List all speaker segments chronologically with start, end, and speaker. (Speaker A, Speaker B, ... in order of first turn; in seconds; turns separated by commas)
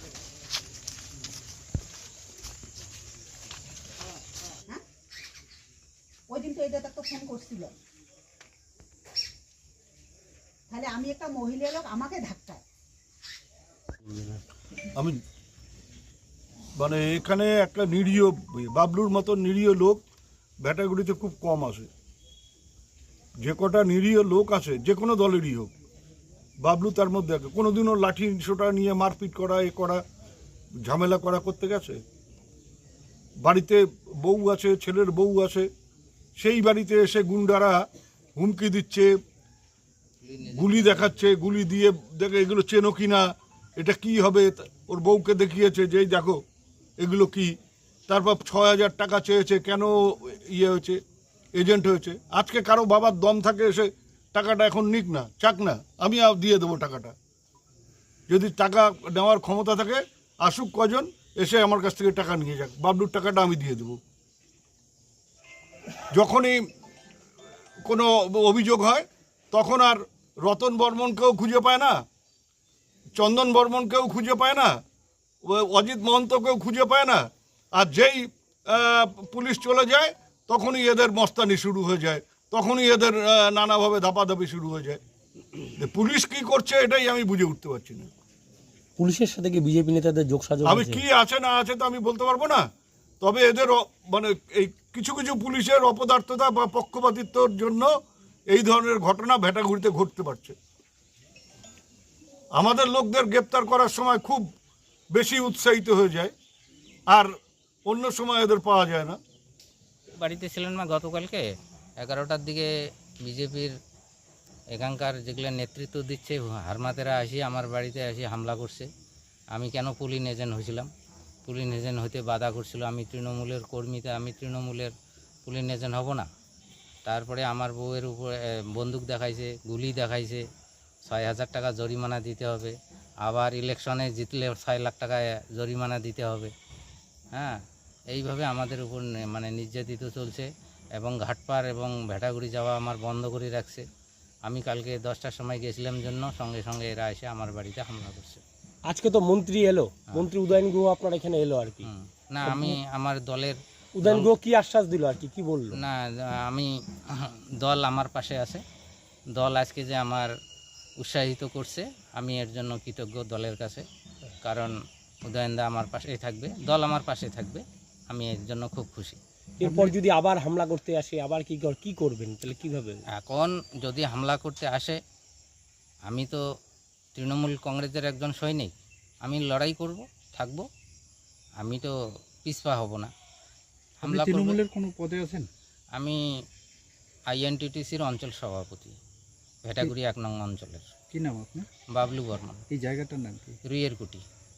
Speaker A: 6.3-7.7, Speaker A: 10.7-12.6, Speaker B: 16.8-20.0, Speaker B: 20.6-21.9, Speaker B: 23.4-25.7, Speaker B: 26.6-30.0, Speaker B: 30.8-32.0, Speaker B: 33.4-35.7, Speaker B: 36.4-39.1, Speaker C: 40.2-41.3, Speaker B: 40.5-46.4, Speaker B: 47.0-47.5, Speaker B: 48.1-51.0, Speaker B: 51.5-57.1, Speaker B: 58.3-64.0, Speaker B: 66.1-66.6, Speaker B: 67.8-72.0, Speaker B: 73.2-74.8, Speaker B: 75.4-85.0, Speaker B: 85.8-88.1, Speaker D: 89.0-91.0, Speaker B: 90.6-92.7, Speaker B: 93.2-97.9, Speaker B: 98.5-100.6, Speaker B: 102.6-104.5, Speaker B: 105.1-106.3, Speaker B: 107.9-109.2, Speaker C: 110.2-111.5, Speaker C: 112.0-112.7, Speaker C: 113.2-113.7, Speaker C: 114.7-118.9, Speaker C: 119.5-120.9, Speaker C: 121.5-124.9, Speaker C: 125.5-126.3, Speaker C: 127.1-130.4, Speaker C: 131.1-136.5, Speaker C: 138.1-143.8, Speaker C: 144.5-148.4, Speaker D: 148.9-151.9, Speaker C: 151.8-154.3, Speaker D: 152.4-152.8, Speaker D: 154.0-155.8, Speaker C: 155.7-158.6, Speaker C: 159.4-160.3, Speaker C: 161.0-163.8, Speaker C: 164.4-164.7, Speaker C: 165.3-169.2, Speaker D: 169.6-173.0, Speaker E: 169.6-169.9, Speaker C: 173.2-175.0, Speaker C: 176.1-176.4, Speaker C: 177.2-178.7, Speaker C: 179.2-180.7, Speaker C: 181.6-181.9, Speaker C: 182.4-183.1, Speaker C: 184.0-184.6, Speaker E: 184.0-185.5, Speaker C: 187.3-188.9, Speaker C: 189.6-190.9, Speaker E: 191.1-191.7, Speaker C: 191.9-192.6, Speaker E: 192.7-193.6, Speaker C: 193.7-194.2